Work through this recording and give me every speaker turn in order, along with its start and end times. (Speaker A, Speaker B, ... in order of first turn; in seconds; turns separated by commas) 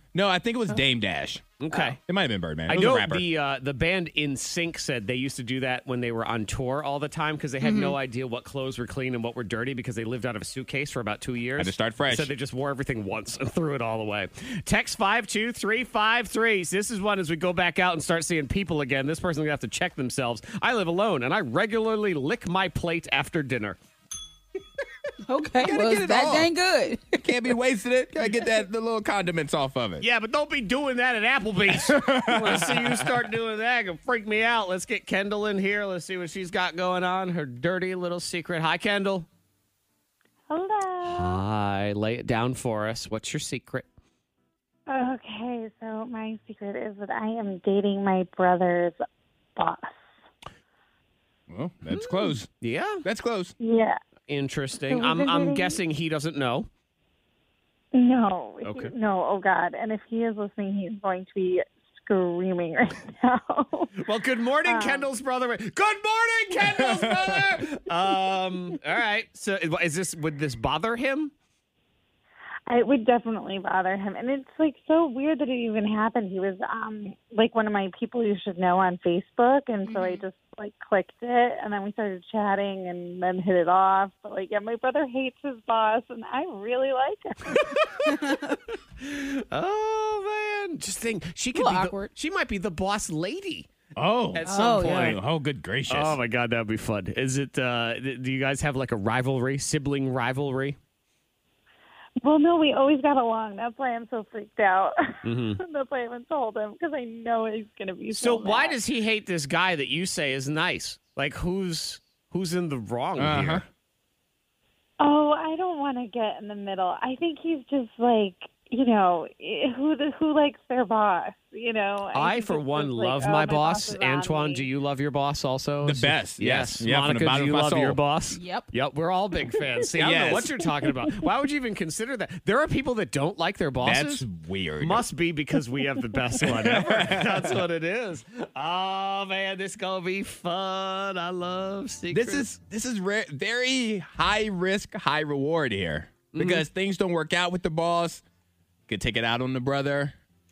Speaker A: 0.1-3.2, Speaker B: 1.6-2.0, Speaker B: 2.7-23.8, Speaker C: 7.6-8.0, Speaker A: 11.6-12.3, Speaker C: 25.2-27.3, Speaker A: 25.6-26.5, Speaker A: 27.1-30.0, Speaker B: 30.0-39.3, Speaker A: 31.7-33.1, Speaker D: 40.5-41.4, Speaker B: 41.0-43.9, Speaker D: 44.9-49.0, Speaker D: 49.5-50.1, Speaker A: 51.5-52.5, Speaker B: 51.9-53.0, Speaker A: 53.0-53.5, Speaker D: 53.6-54.0, Speaker B: 54.3-56.7, Speaker D: 54.9-55.8, Speaker D: 57.9-63.9, Speaker B: 58.6-58.9, Speaker B: 64.0-71.3, Speaker D: 64.6-65.1, Speaker A: 66.7-67.5, Speaker D: 72.7-87.8, Speaker C: 79.8-80.2, Speaker B: 89.0-93.7, Speaker C: 91.5-92.1, Speaker A: 94.0-96.2, Speaker B: 94.3-95.2, Speaker C: 94.5-95.2, Speaker B: 95.9-100.8, Speaker D: 102.2-108.8, Speaker B: 105.2-105.6, Speaker B: 108.1-113.6, Speaker A: 113.2-113.6, Speaker D: 115.0-124.7, Speaker B: 122.1-134.2, Speaker A: 125.8-128.0, Speaker C: 128.3-128.7, Speaker A: 130.0-130.6, Speaker A: 133.8-135.0, Speaker B: 134.8-142.5, Speaker A: 136.4-137.6, Speaker A: 142.1-148.2, Speaker B: 146.3-146.6, Speaker A: 148.9-150.2